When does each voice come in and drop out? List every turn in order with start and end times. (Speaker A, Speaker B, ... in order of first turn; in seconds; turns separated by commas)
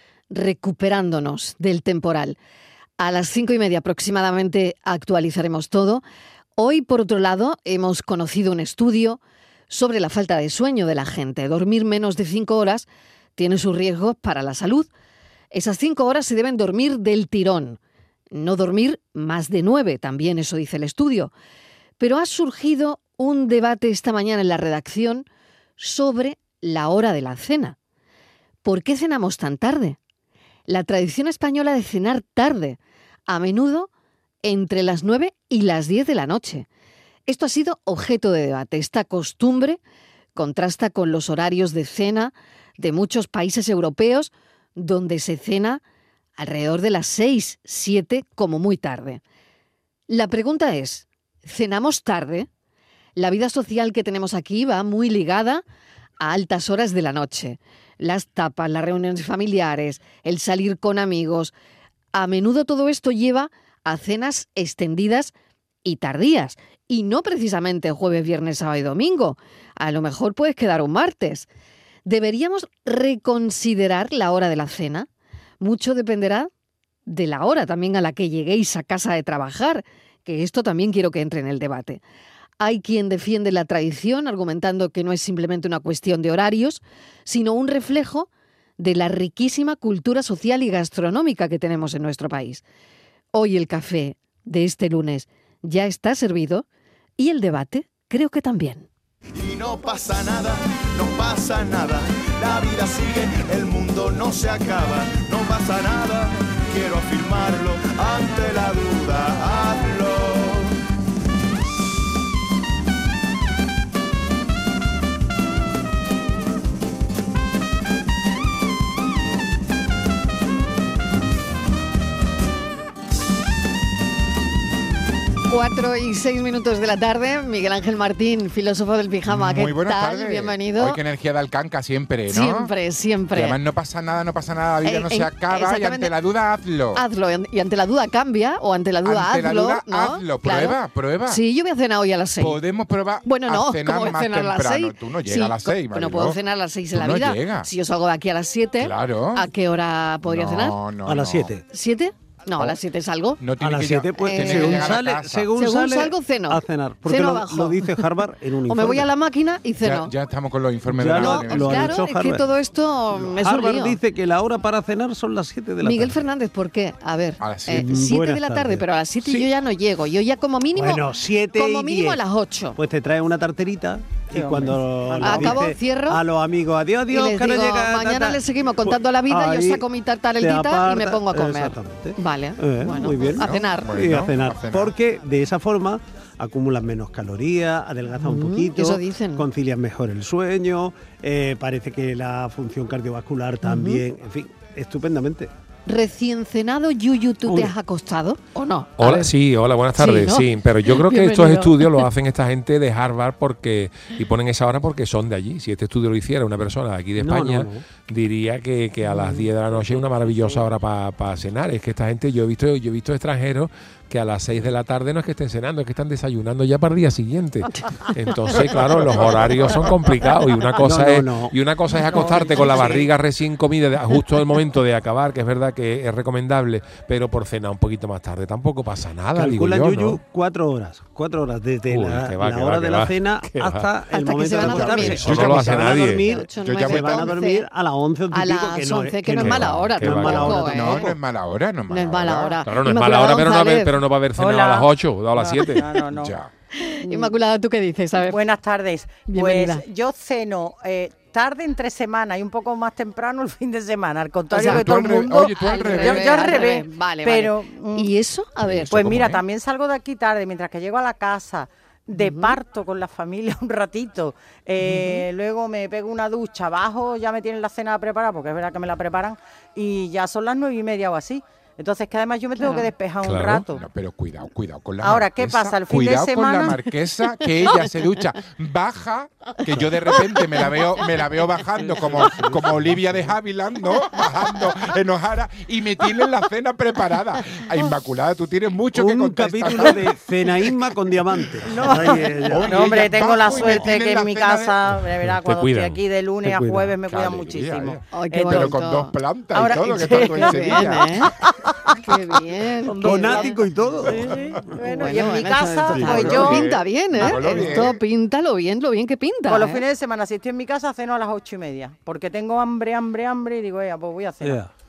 Speaker A: 0.3-2.4, Speaker A: 3.0-6.0, Speaker A: 6.6-14.9, Speaker A: 15.5-17.8, Speaker A: 18.3-21.3, Speaker A: 22.0-25.2, Speaker A: 25.8-27.8, Speaker A: 28.6-30.0, Speaker A: 30.7-33.9, Speaker A: 34.4-36.6, Speaker A: 37.3-39.8, Speaker A: 40.3-45.8, Speaker A: 46.4-49.2, Speaker A: 50.1-52.5, Speaker A: 53.2-55.6, Speaker A: 56.2-61.5, Speaker A: 62.1-65.3, Speaker A: 65.8-71.5, Speaker A: 72.0-75.1, Speaker A: 75.6-76.5, Speaker A: 77.1-82.0, Speaker A: 82.6-88.3, Speaker A: 88.8-92.6, Speaker A: 93.3-96.7, Speaker A: 97.2-98.9, Speaker B: 99.3-110.8, Speaker A: 125.5-131.0, Speaker C: 129.3-132.7, Speaker A: 132.3-133.6, Speaker C: 133.3-137.0, Speaker A: 134.8-136.1, Speaker A: 136.9-140.8, Speaker C: 139.0-141.4, Speaker A: 141.3-142.6, Speaker C: 142.4-146.4, Speaker A: 143.2-150.8, Speaker C: 146.9-147.7, Speaker C: 148.8-149.5, Speaker C: 150.2-151.5, Speaker D: 151.1-151.6, Speaker A: 151.7-153.4, Speaker C: 153.4-155.5, Speaker D: 153.6-159.1, Speaker A: 154.2-155.0, Speaker A: 155.6-158.0, Speaker A: 158.7-160.1, Speaker C: 159.8-162.0, Speaker D: 160.9-162.4, Speaker A: 161.1-164.0, Speaker D: 163.1-166.2, Speaker A: 165.8-172.8, Speaker C: 167.4-168.0, Speaker D: 167.7-169.4, Speaker D: 170.8-172.2, Speaker D: 172.8-179.8, Speaker E: 174.3-175.4, Speaker A: 175.2-176.2, Speaker A: 177.1-184.0, Speaker D: 180.4-195.5, Speaker C: 183.2-184.9, Speaker A: 188.2-189.4, Speaker A: 193.6-194.0, Speaker A: 195.8-199.2, Speaker D: 197.4-197.7, Speaker F: 199.0-230.2, Speaker A: 200.0-202.1, Speaker D: 207.2-207.8, Speaker A: 209.1-209.4, Speaker D: 220.8-221.5, Speaker D: 222.1-223.0, Speaker E: 222.1-223.0, Speaker D: 229.3-241.1, Speaker F: 231.9-233.9, Speaker A: 234.1-237.7, Speaker C: 234.6-235.8, Speaker F: 234.6-236.3, Speaker C: 236.6-237.3, Speaker A: 238.3-241.1, Speaker F: 239.3-240.7, Speaker C: 240.2-242.6, Speaker A: 241.9-244.0, Speaker F: 242.7-245.9, Speaker E: 244.4-246.4, Speaker C: 246.1-246.5, Speaker A: 246.7-248.4, Speaker E: 247.0-247.3, Speaker E: 248.3-258.1, Speaker A: 249.3-249.8, Speaker A: 254.5-259.2, Speaker C: 254.6-256.7, Speaker F: 258.6-259.4, Speaker E: 258.9-273.8, Speaker A: 262.1-262.6, Speaker A: 264.8-265.2, Speaker A: 272.6-272.9, Speaker F: 273.2-273.6, Speaker C: 273.7-290.2, Speaker E: 275.0-276.8, Speaker D: 281.8-283.3, Speaker D: 288.9-292.8, Speaker E: 291.7-298.8, Speaker C: 292.5-295.0, Speaker F: 295.2-297.0, Speaker C: 297.0-301.3, Speaker A: 298.1-299.1, Speaker E: 299.5-300.9, Speaker A: 300.2-301.3, Speaker A: 302.0-303.5, Speaker E: 302.9-306.6, Speaker D: 302.9-304.3, Speaker A: 304.8-309.8, Speaker C: 305.9-308.0, Speaker E: 309.5-314.6, Speaker D: 314.4-314.7